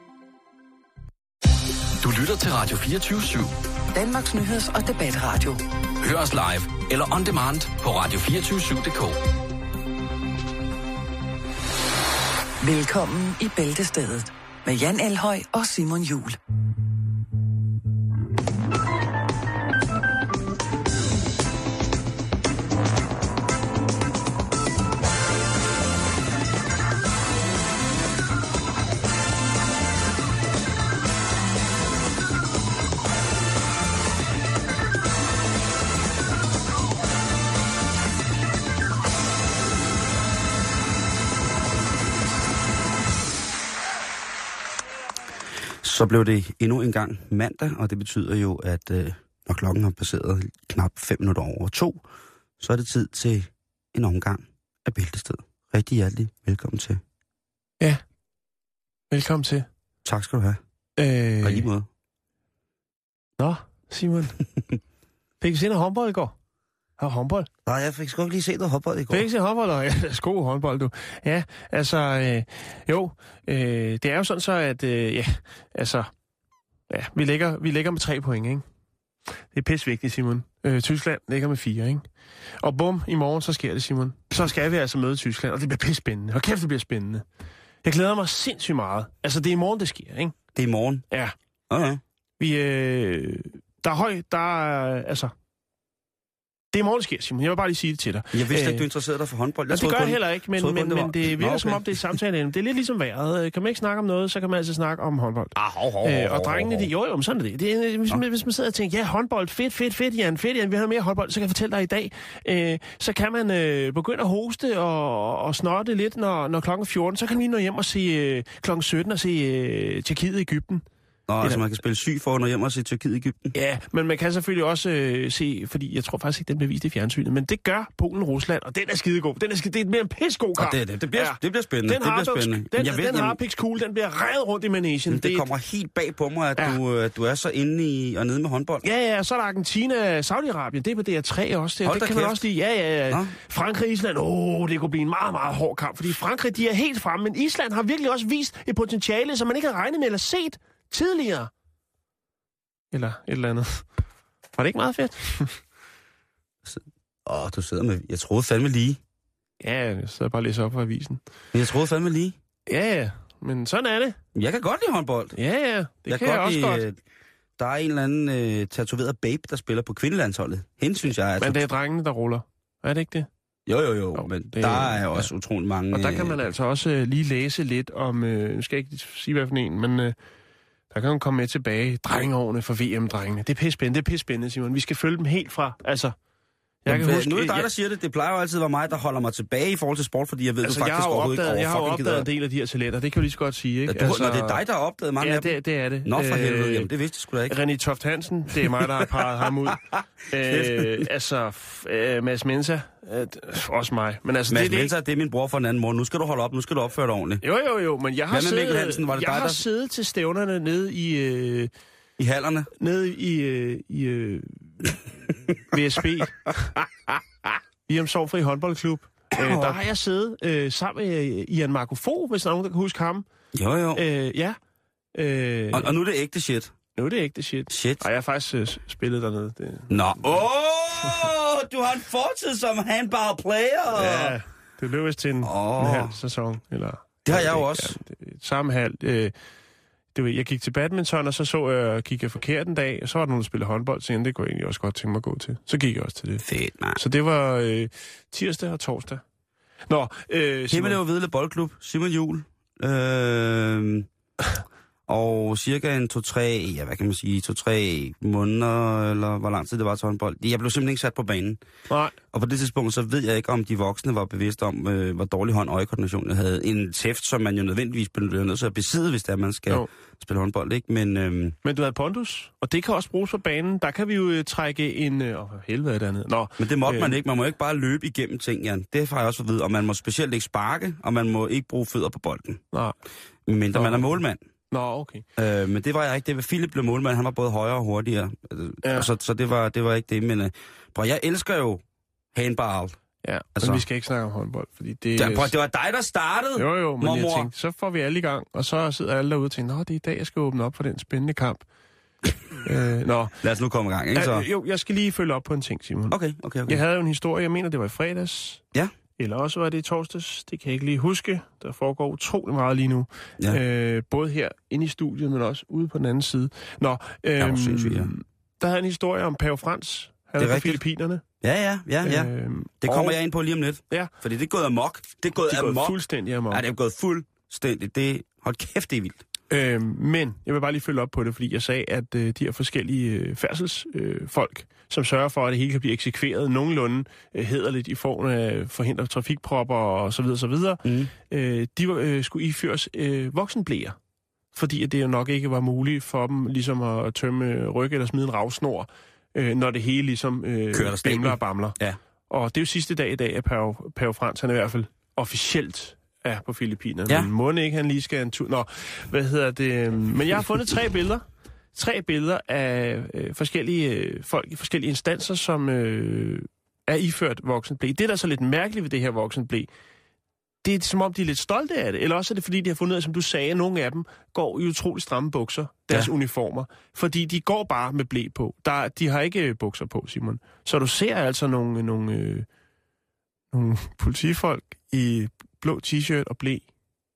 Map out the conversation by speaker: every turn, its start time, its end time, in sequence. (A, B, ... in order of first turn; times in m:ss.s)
0:02.0-0:03.5 A
0:03.9-0:05.6 B
0:06.0-0:09.2 A
0:12.6-0:16.4 B
0:45.8-0:52.0 C
0:52.6-0:57.0 C
0:59.1-0:59.7 D
1:00.0-1:00.6 C
1:01.0-1:01.7 D
1:01.4-1:01.9 C
1:03.4-1:04.4 D
1:05.4-1:06.3 D
1:07.0-1:07.5 D
1:07.6-1:09.3 C
1:09.1-1:16.1 D
1:16.9-1:18.6 D
1:19.5-1:22.1 D
1:22.6-1:27.2 D
1:27.8-1:30.4 D
1:30.5-1:31.0 C
1:31.7-1:32.0 C
1:32.4-1:35.3 D
1:36.7-1:38.9 D
1:38.3-1:42.1 C
1:39.7-2:00.8 D
1:45.5-1:46.9 C
2:01.3-2:03.5 C
2:03.5-2:15.5 D
2:10.6-2:13.4 C
2:15.1-2:18.8 C
2:18.8-2:31.5 D
2:21.8-2:22.4 C
2:23.1-2:23.3 C
2:32.9-2:33.9 D
2:34.6-2:35.6 D
2:36.6-2:39.0 C
2:39.6-2:41.2 D
2:41.5-2:42.4 C
2:42.7-2:44.2 D
2:44.3-2:45.4 C
2:45.4-2:46.8 D
2:46.1-2:47.0 C
2:47.6-2:51.6 C
2:51.4-2:53.3 D
2:53.7-2:56.4 C
2:54.1-2:55.3 D
2:55.9-3:00.1 D
3:00.9-3:06.1 D
3:06.8-3:07.7 D
3:06.9-3:12.3 C
3:10.6-3:14.6 D
3:13.9-3:17.6 C
3:15.2-3:16.9 D
3:17.5-3:24.9 D
3:18.8-3:21.0 C
3:24.5-3:27.4 C
3:27.4-3:31.7 D
3:28.3-3:29.6 C
3:32.2-3:32.7 C
3:32.8-3:34.6 D
3:35.7-3:36.7 D
3:37.9-3:43.2 D
3:39.4-3:39.8 C
3:43.5-3:44.0 C
3:43.9-3:44.6 D
3:45.1-3:45.9 D
3:45.7-3:46.7 C
3:47.0-3:50.0 D
3:47.7-3:48.0 C
3:49.9-3:54.4 C
3:53.9-3:59.3 D
3:55.4-3:56.2 C
3:57.2-3:58.0 C
4:00.1-4:06.4 D
4:06.4-4:07.0 C
4:06.9-4:09.2 D
4:09.9-4:11.0 D
4:10.7-4:14.1 C
4:15.1-4:21.6 C
4:21.9-4:22.1 D
4:22.3-4:31.5 C
4:31.6-4:37.2 D
4:36.6-4:42.6 C
4:43.5-4:44.4 C
4:43.7-4:44.2 D
4:44.7-4:45.2 D
4:45.4-4:51.8 C
4:48.8-4:49.1 D
4:52.3-4:53.0 C
4:53.2-4:55.5 D
4:53.6-4:53.8 C
4:55.2-4:57.5 C
4:56.6-5:01.6 D
5:02.6-5:03.4 D
5:03.4-5:04.5 C
5:04.1-5:06.2 D
5:06.1-5:06.8 C
5:06.7-5:08.6 D
5:09.2-5:21.2 D
5:17.4-5:18.1 C
5:20.4-5:20.8 C
5:21.4-5:26.0 C
5:22.0-5:23.2 D
5:25.4-5:26.6 D
5:26.5-5:29.2 C
5:29.5-5:44.0 D
5:40.8-5:41.1 C
5:44.5-6:09.7 D
5:50.7-5:52.0 C
6:10.6-6:22.5 D
6:23.5-6:26.7 D